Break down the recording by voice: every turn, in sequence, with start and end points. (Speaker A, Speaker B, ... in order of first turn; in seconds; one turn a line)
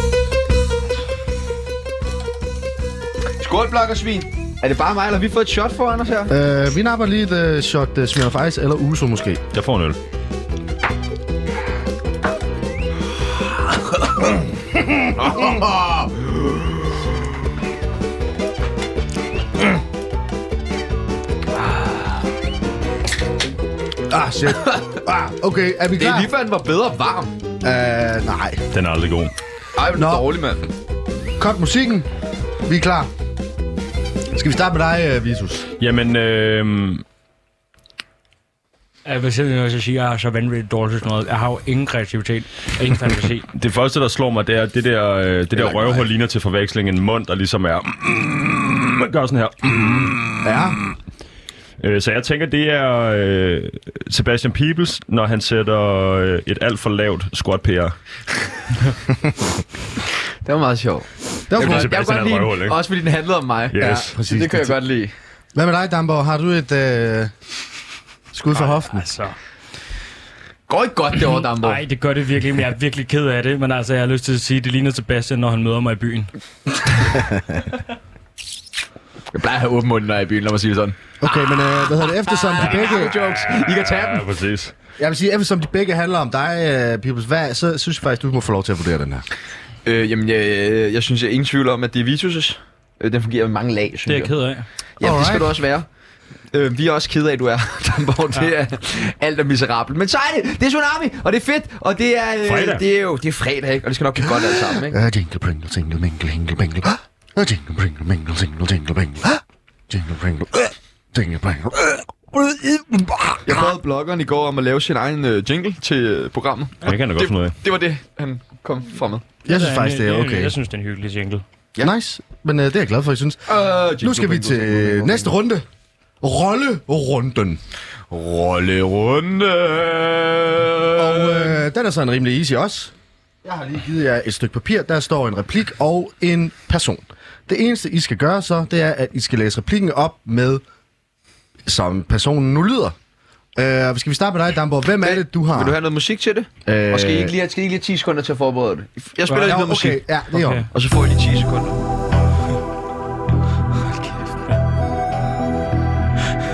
Speaker A: 3.4-6.3
Speaker B: 6.3-9.4
Speaker C: 9.5-10.0
Speaker A: 15.2-16.6
Speaker B: 24.1-26.3
Speaker A: 26.0-27.4
Speaker B: 27.6-28.6
Speaker C: 28.7-29.3
Speaker A: 29.8-30.6
Speaker B: 29.9-30.3
Speaker B: 31.4-32.1
Speaker B: 32.6-33.1
Speaker B: 34.3-35.6
Speaker C: 35.8-37.0
Speaker D: 39.0-43.5
Speaker C: 43.5-50.8
Speaker A: 45.6-46.0
Speaker B: 50.4-50.8
Speaker C: 51.8-57.9
Speaker A: 60.4-65.1
Speaker B: 61.5-61.9
Speaker C: 61.5-62.8
Speaker C: 63.7-64.1
Speaker B: 63.8-64.8
Speaker B: 65.5-67.3
Speaker B: 68.3-69.0
Speaker D: 68.5-69.3
Speaker A: 70.7-71.8
Speaker D: 71.4-76.3
Speaker A: 79.3-84.3
Speaker B: 81.2-83.2
Speaker C: 83.1-84.7
Speaker B: 85.0-89.2
Speaker A: 89.8-94.3
Speaker D: 94.1-94.7
Speaker A: 95.0-95.8
Speaker B: 95.0-95.6
Speaker A: 96.5-105.0
Speaker C: 102.4-102.8
Speaker B: 104.2-113.7
Speaker A: 113.4-119.3
Speaker C: 116.8-117.5
Speaker B: 119.4-120.5
Speaker D: 119.5-121.4
Speaker B: 121.8-125.6
Speaker A: 123.5-125.3
Speaker B: 126.2-127.6
Speaker A: 128.1-131.6
Speaker B: 130.9-132.9
Speaker B: 133.4-140.6
Speaker B: 141.7-142.9
Speaker B: 143.6-145.8
Speaker A: 145.0-150.0
Speaker B: 146.7-147.3
Speaker B: 149.3-150.7
Speaker D: 150.3-150.7
Speaker A: 150.7-151.8